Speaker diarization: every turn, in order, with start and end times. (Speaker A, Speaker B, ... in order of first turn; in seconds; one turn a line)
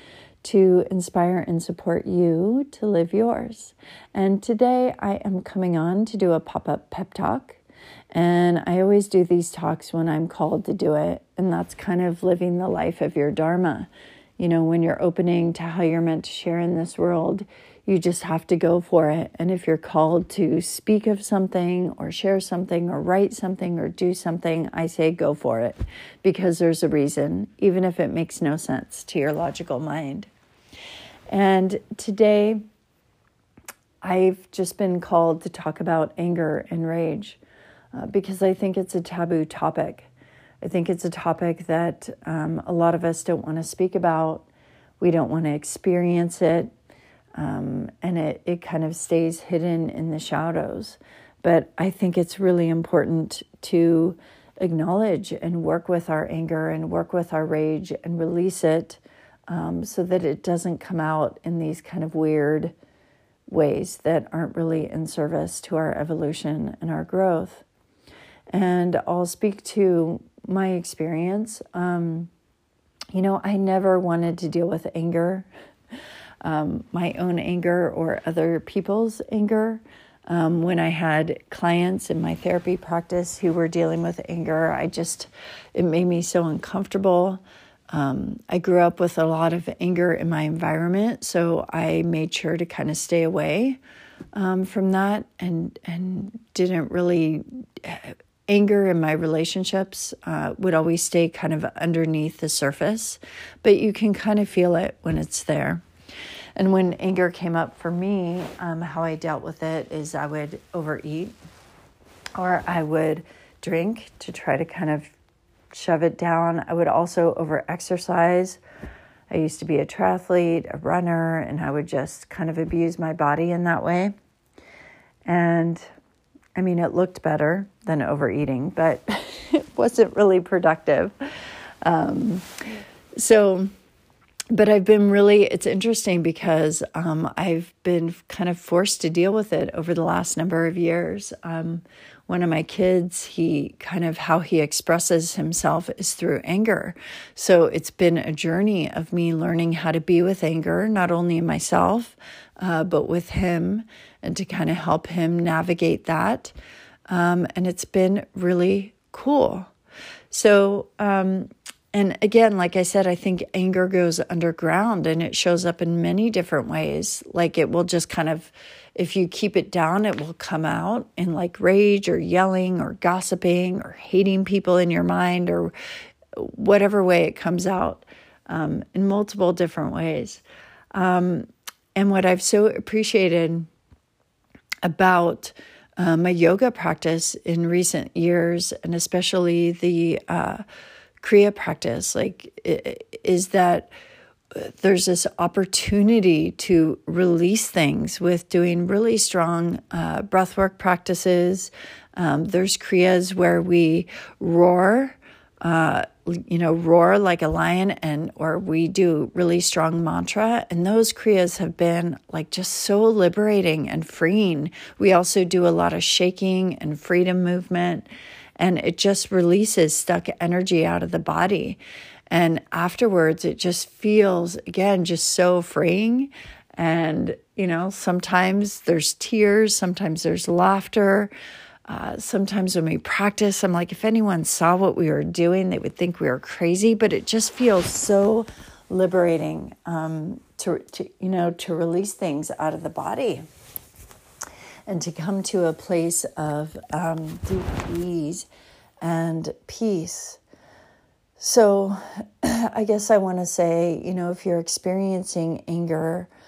Speaker A: 0.4-7.6
Speaker A: 8.1-30.3
Speaker A: 31.3-32.6
Speaker A: 34.0-37.4
Speaker A: 37.9-40.1
Speaker A: 40.6-44.5
Speaker A: 45.0-46.7
Speaker A: 47.4-62.7
Speaker A: 63.5-67.7
Speaker A: 68.5-72.3
Speaker A: 73.1-75.5
Speaker A: 76.4-93.8
Speaker A: 94.3-105.8
Speaker A: 106.6-111.4
Speaker A: 112.4-115.1
Speaker A: 115.7-118.6
Speaker A: 119.3-124.1
Speaker A: 125.3-125.8
Speaker A: 126.6-131.1
Speaker A: 131.8-132.5
Speaker A: 133.2-133.7
Speaker A: 134.5-156.6
Speaker A: 157.1-159.7
Speaker A: 160.3-175.7
Speaker A: 176.3-180.4
Speaker A: 180.9-183.7
Speaker A: 184.8-190.6
Speaker A: 191.2-193.9
Speaker A: 194.6-231.3
Speaker A: 231.9-243.4
Speaker A: 244.9-248.5
Speaker A: 249.0-250.4
Speaker A: 251.4-256.3